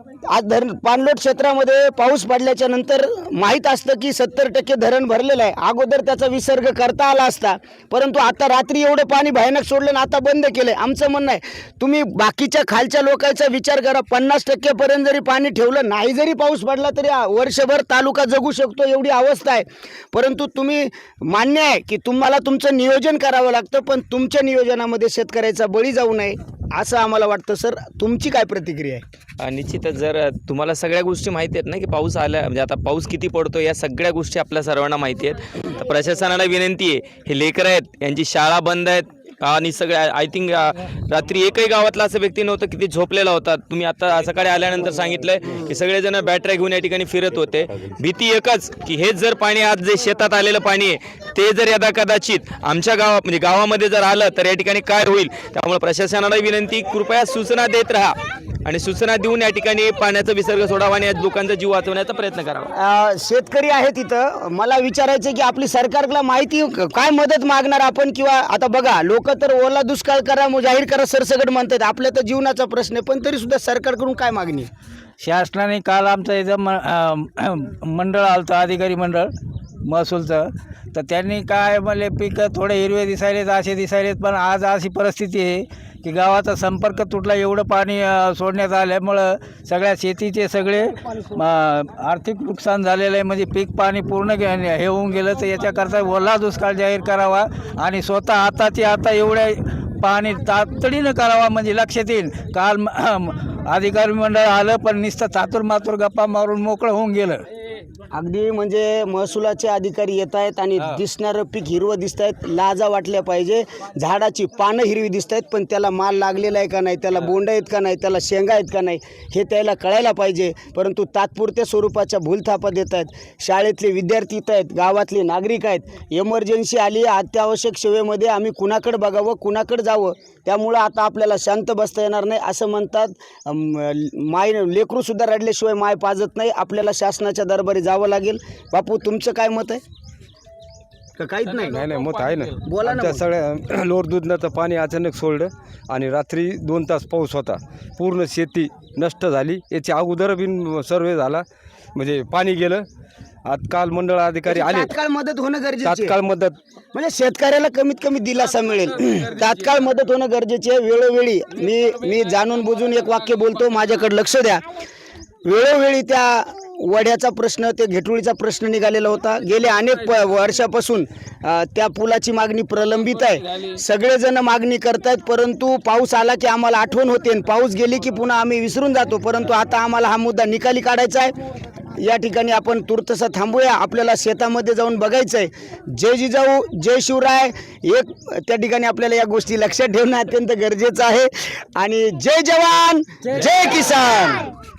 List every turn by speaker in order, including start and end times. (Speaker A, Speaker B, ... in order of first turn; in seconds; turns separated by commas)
Speaker A: 0.3-29.0, Speaker B: 29.4-62.7, Speaker A: 62.7-74.7, Speaker C: 75.2-79.3, Speaker C: 79.8-107.4, Speaker A: 108.1-139.8, Speaker A: 141.2-141.9, Speaker D: 141.7-152.9, Speaker A: 142.6-143.3, Speaker D: 153.4-154.9, Speaker A: 154.5-156.2, Speaker D: 155.8-156.6, Speaker A: 156.9-164.7, Speaker A: 165.4-181.3, Speaker A: 182.0-194.5